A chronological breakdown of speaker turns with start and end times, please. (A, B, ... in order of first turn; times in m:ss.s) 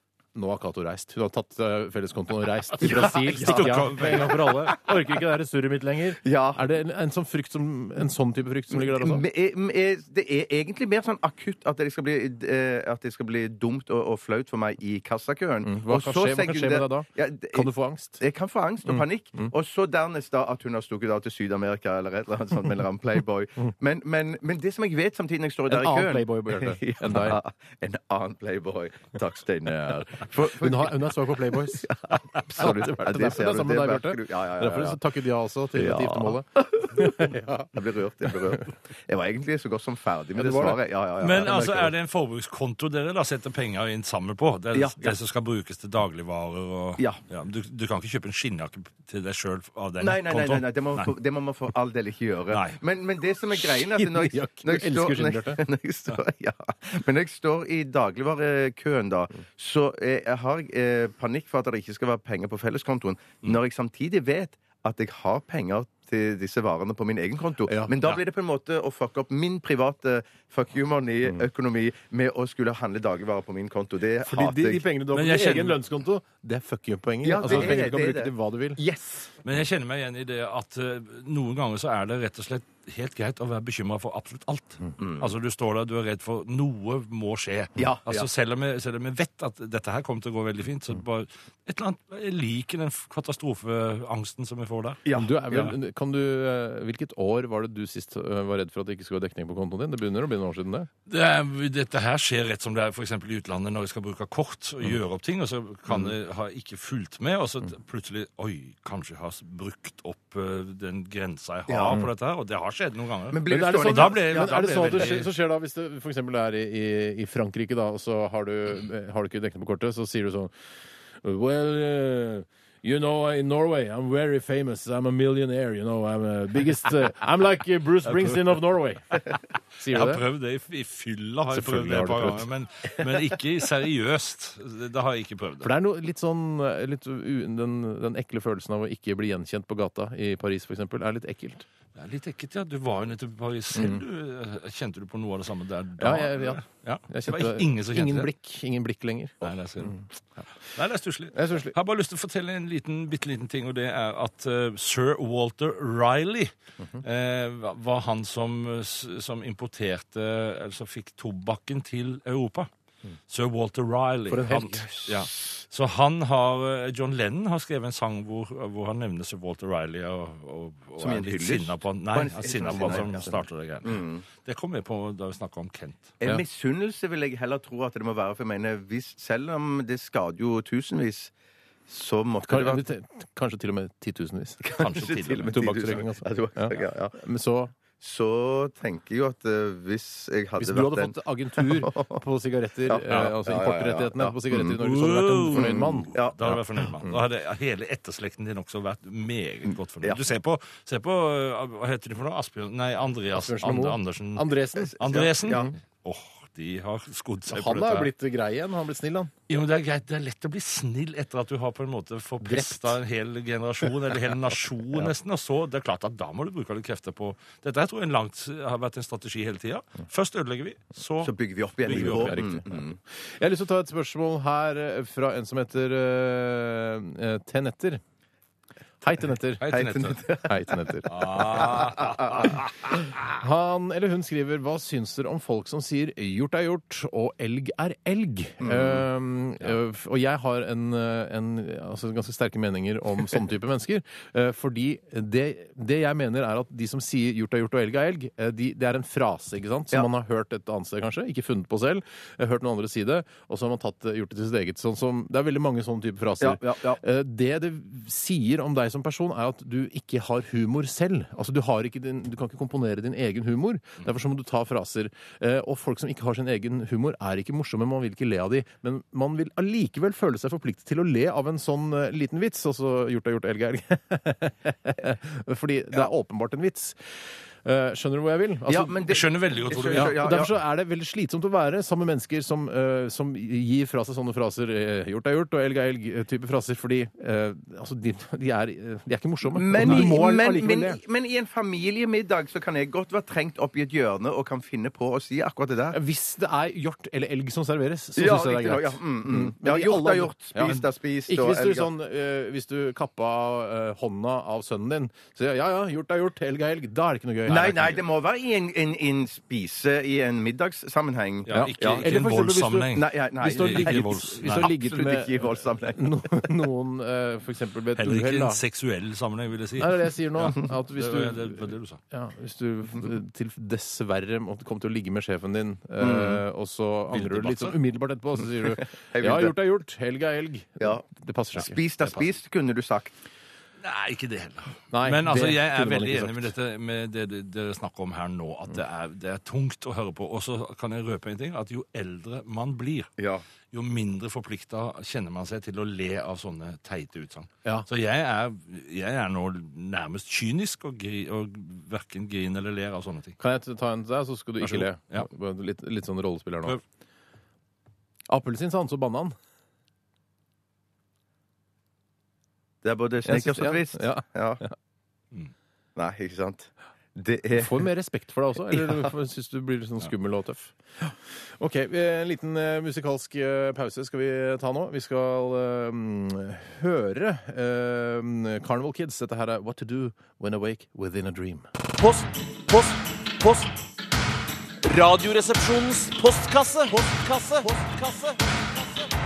0:00.4-0:09.2 A
0:02.8-0:04.6 B
0:03.3-0:04.7 C
0:06.2-0:06.6 B
0:08.7-0:17.7 B
0:15.6-0:18.2 A
0:18.2-0:35.0 B
0:18.9-0:19.5 A
0:25.7-0:27.4 A
0:30.3-0:31.9 A
0:32.6-0:37.7 A
0:35.8-0:41.9 B
0:40.4-0:40.8 A
0:41.2-0:51.1 C
0:44.7-0:45.2 B
0:50.0-1:14.8 B
0:52.5-0:52.8 C
0:53.6-0:55.6 A
1:07.6-1:07.9 A
1:14.2-1:18.8 A
1:15.1-1:15.8 C
1:17.2-1:19.3 B
1:19.4-1:35.7 C
1:25.0-1:25.3 B
1:27.8-1:28.3 B
1:35.0-1:35.4 B
1:35.1-1:40.9 A
1:41.1-1:55.3 C
1:51.7-1:52.0 B
1:53.3-1:55.2 B
1:53.5-2:00.5 A
2:01.2-2:09.2 A
2:09.8-2:10.2 A
2:09.9-2:15.7 C
2:11.5-2:12.5 A
2:15.6-2:21.6 A
2:21.9-2:28.3 C
2:23.8-2:24.0 A
2:26.0-2:30.0 A
2:29.4-2:30.0 C
2:30.7-2:42.7 C
2:31.3-2:31.7 A
2:43.3-2:56.2 C
2:44.3-2:44.8 A
2:44.6-2:45.6 B
2:51.0-2:53.3 B
2:53.8-2:54.2 B
2:56.2-3:01.3 B
3:01.9-3:02.8 B
3:02.5-3:04.6 A
3:04.6-3:07.1 B
3:04.8-3:05.5 C
3:05.5-3:07.7 A
3:08.0-3:12.2 B
3:10.6-3:17.2 A
3:12.9-3:14.8 B
3:14.8-3:28.1 C
3:15.5-3:16.4 B
3:23.4-3:25.0 A
3:24.8-3:25.7 B
3:27.5-3:29.3 A
3:29.5-3:42.4 C
3:32.4-3:33.0 A
3:41.2-3:43.0 B
3:41.9-3:42.8 A
3:43.4-3:48.0 A
3:49.0-3:49.6 A
3:49.6-3:50.2 C
3:49.7-3:52.6 B
3:50.4-3:51.1 A
3:51.1-3:52.7 C
3:53.4-4:39.0 A
3:58.6-3:59.0 B
4:16.4-4:17.0 B
4:38.7-4:40.5 B
4:39.1-4:40.2 C
4:39.9-4:51.0 A
4:49.5-4:56.0 B
4:49.8-4:50.1 C
4:55.9-5:07.9 A
4:58.2-5:01.9 B
5:07.5-5:12.1 B
5:07.5-5:08.0 C
5:11.5-5:14.8 C
5:11.5-5:18.6 A
5:12.9-5:16.5 B
5:18.0-5:22.0 C
5:19.8-5:32.2 A
5:26.0-5:26.4 B
5:27.1-5:27.8 C
5:28.6-5:29.5 B
5:31.6-5:33.1 B
5:33.8-5:43.1 C
5:34.9-5:36.5 A
5:43.2-5:43.4 B
5:43.7-5:53.4 C
5:53.4-5:56.8 A
5:54.6-5:55.3 C
5:58.3-5:59.4 A
6:02.8-6:04.6 B
6:03.2-6:04.7 A
6:06.0-6:07.9 B
6:07.5-6:21.7 A
6:08.7-6:09.0 B
6:22.0-6:23.7 D
6:24.8-6:28.6 D